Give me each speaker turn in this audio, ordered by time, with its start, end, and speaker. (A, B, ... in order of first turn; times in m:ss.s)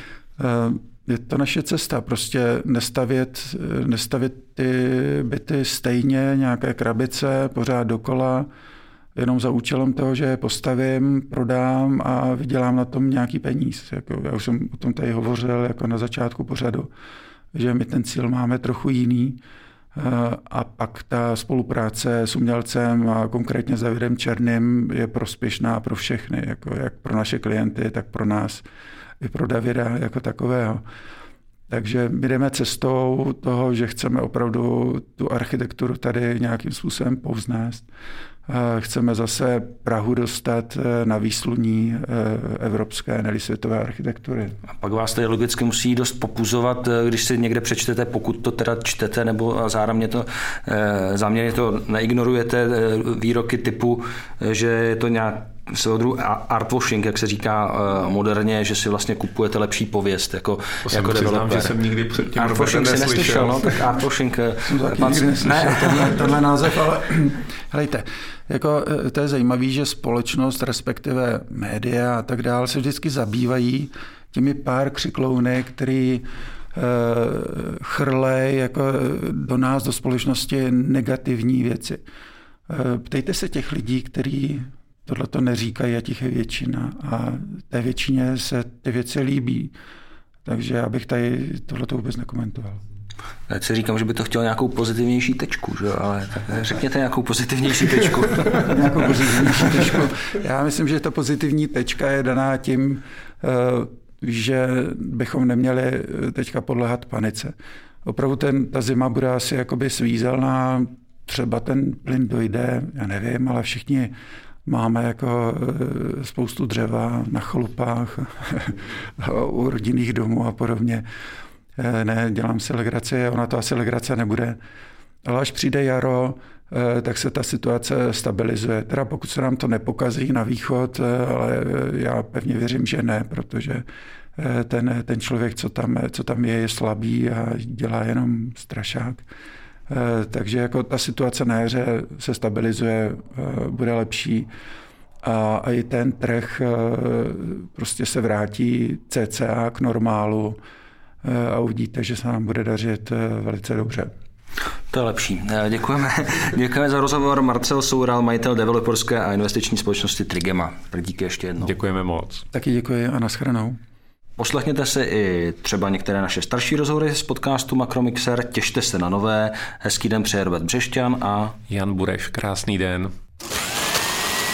0:00.4-0:08.5 A
0:09.2-0:16.9 A
0:17.5-0:19.4 A
0:19.9-0:28.6 A
0:29.2-0:30.8 A
0:31.7-0:37.9 A
0:38.5-0:44.6 A
0:44.7-1:01.8 B
1:00.9-1:03.8 C
1:02.3-1:06.3 B
1:04.6-1:22.0 A
1:22.7-1:29.7 A
1:30.4-1:32.8 A
1:33.5-1:38.8 B
1:38.6-1:47.5 A
1:48.0-1:54.1 A
1:54.6-2:01.0 A
2:01.8-2:04.6 A
2:05.2-2:13.8 A
2:14.4-2:19.2 A
2:19.9-2:24.5 A
2:25.2-2:30.6 A
2:31.2-2:34.1 A
2:34.9-2:41.7 B
2:41.6-2:42.4 C
2:42.5-2:43.8 A
2:44.4-2:51.6 B
2:51.7-2:53.1 C